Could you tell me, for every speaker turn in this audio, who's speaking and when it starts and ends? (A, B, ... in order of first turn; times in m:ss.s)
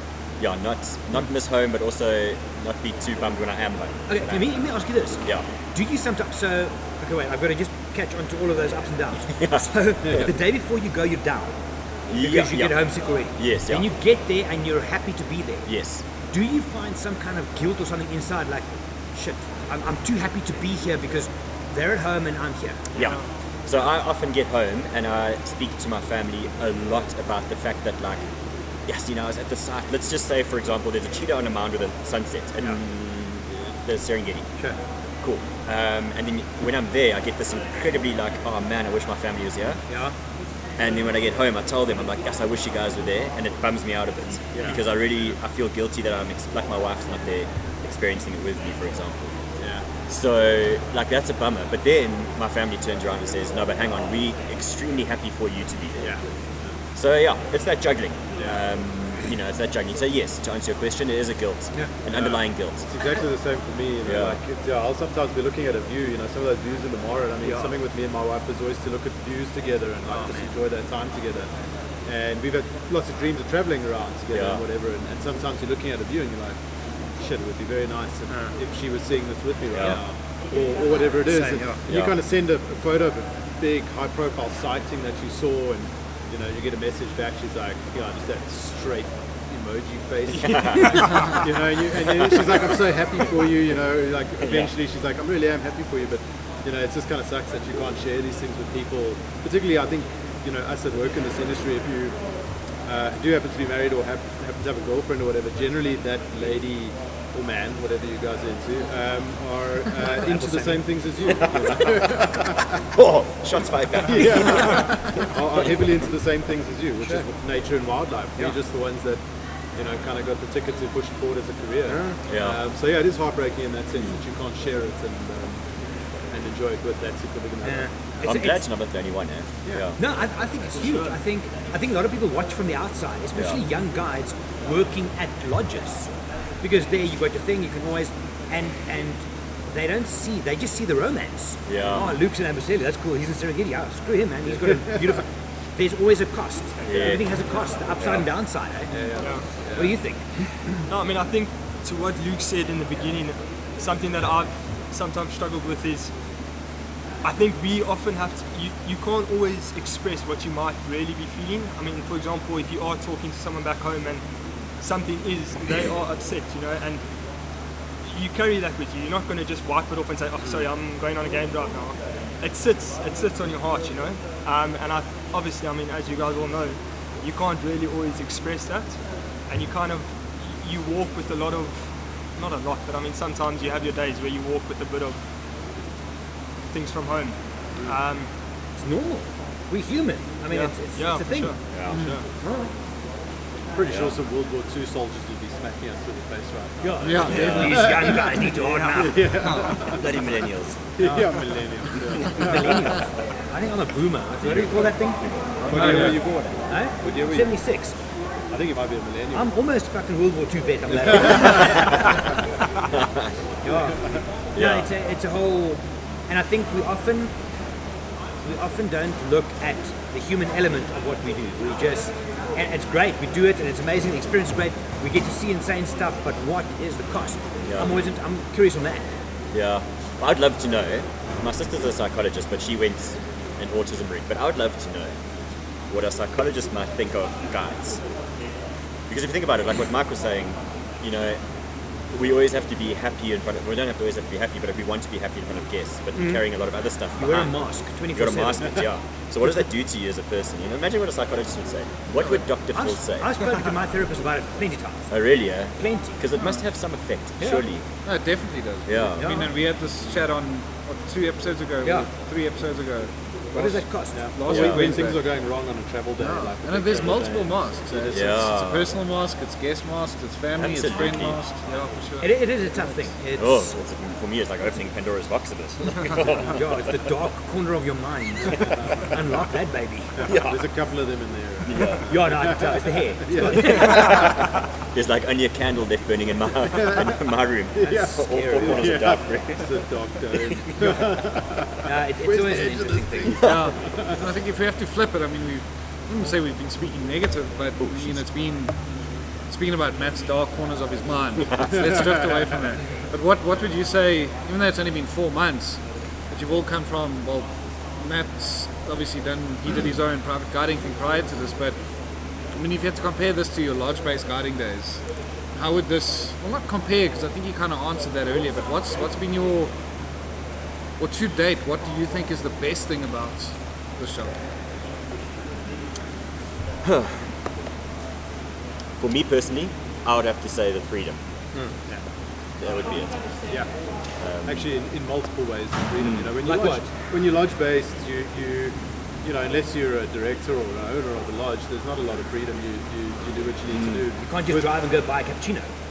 0:00.4-0:04.5 A
0:04.1-0:05.2 B
0:05.7-0:11.5 B
0:09.4-0:10.2 A
0:12.1-0:13.8 A
0:12.1-0:15.7 B
0:15.6-0:16.0 A
0:16.3-0:22.9 B
0:22.9-0:28.3 A
0:23.0-0:23.2 C
0:28.9-0:34.5 A
0:35.2-0:39.8 A
0:39.9-0:40.1 B
0:40.8-0:49.4 A
0:44.5-0:44.8 D
0:49.6-0:49.9 D
0:50.1-0:56.1 A
0:56.0-0:56.7 D
0:56.9-1:02.9 A
1:02.1-1:11.5 D
1:04.0-1:04.4 A
1:07.4-1:07.7 B
1:12.0-1:16.6 D
1:14.3-1:14.6 A
1:17.2-1:42.2 D
1:18.3-1:18.5 B
1:19.7-1:20.0 A
1:21.3-1:21.8 B
1:21.9-1:22.2 A
1:30.3-1:31.2 A
1:31.0-1:31.3 C
1:32.0-1:32.7 A
1:34.4-1:34.7 A
1:42.8-1:52.6 D
1:50.0-1:50.8 B
1:51.3-1:52.1 A
1:52.9-1:54.9 A
1:54.0-1:59.2 D
1:59.7-2:05.6 D
2:01.9-2:02.2 B
2:02.3-2:02.6 A
2:06.3-2:07.9 D
2:07.6-2:08.6 B
2:08.2-2:10.0 A
2:10.0-2:16.1 B
2:10.8-2:11.2 C
2:13.3-2:13.6 A
2:16.6-2:29.0 B
2:21.7-2:22.2 A
2:26.8-2:27.2 A
2:26.9-2:27.2 D
2:28.0-2:28.2 A
2:28.9-2:30.0 D
2:29.2-2:29.4 C
2:29.7-2:30.3 B
2:30.9-2:36.1 C
2:37.2-2:44.2 C
2:44.8-2:47.0 C
2:48.0-3:05.2 C
3:06.7-3:08.3 C
3:08.8-3:11.5 B
3:10.5-3:12.2 C
3:11.7-3:12.0 A
3:11.9-3:12.2 E
3:12.4-3:12.7 B
3:13.7-3:20.0 D
3:13.8-3:14.1 A
3:16.8-3:19.3 B
3:17.0-3:17.9 E
3:17.2-3:17.8 A
3:18.6-3:18.9 C
3:19.4-3:19.7 E
3:19.8-3:20.8 A
3:21.0-3:22.9 D
3:22.0-3:22.6 A
3:22.2-3:27.9 B
3:24.4-3:25.6 A
3:25.6-3:26.2 E
3:25.7-3:27.6 D
3:28.5-3:29.5 D
3:29.3-3:32.1 B
3:31.0-3:32.0 D
3:32.9-3:33.3 A
3:33.6-3:34.0 B
3:34.5-3:34.9 A
3:34.5-3:37.3 B
3:38.4-3:49.1 B
3:47.6-3:48.1 A
3:49.5-3:55.2 A
3:55.9-3:58.0 A
3:59.1-4:01.4 A
4:02.1-4:07.5 A
4:06.2-4:06.4 B
4:07.2-4:08.8 B
4:08.1-4:13.3 A
4:12.7-4:15.1 B
4:15.1-4:17.8 A
4:15.8-4:16.2 B
4:18.0-4:25.2 E
4:18.9-4:19.4 A
4:19.2-4:19.5 B
4:21.8-4:22.1 B
4:23.5-4:24.2 B
4:24.1-4:28.4 D
4:24.5-4:24.9 A
4:26.2-4:32.3 E
4:28.1-4:28.9 A
4:30.6-4:31.4 A
4:32.2-4:33.7 B
4:33.4-4:36.6 A
4:36.4-4:40.2 B
4:40.2-4:44.3 D
4:40.2-4:40.6 A
4:41.6-4:42.1 A
4:42.1-4:44.2 B
4:43.5-4:49.8 A
4:46.7-4:47.2 D
4:47.7-4:54.2 D
4:47.8-4:48.9 B
4:50.3-4:51.0 A
4:51.8-4:53.4 B
4:53.4-4:58.8 E
4:57.8-4:58.2 A
4:59.5-5:11.8 E
5:12.6-5:15.0 E
5:15.5-5:19.7 E
5:21.0-5:24.4 E
5:26.8-5:27.3 A
5:29.0-5:31.2 A
5:31.5-5:32.0 D
5:32.6-5:33.2 A
5:33.5-5:33.7 D
5:34.2-5:34.6 A
5:34.4-5:44.8 D
5:36.0-5:36.3 A
5:36.4-5:36.9 B
5:43.7-5:44.0 A
5:44.2-5:45.7 B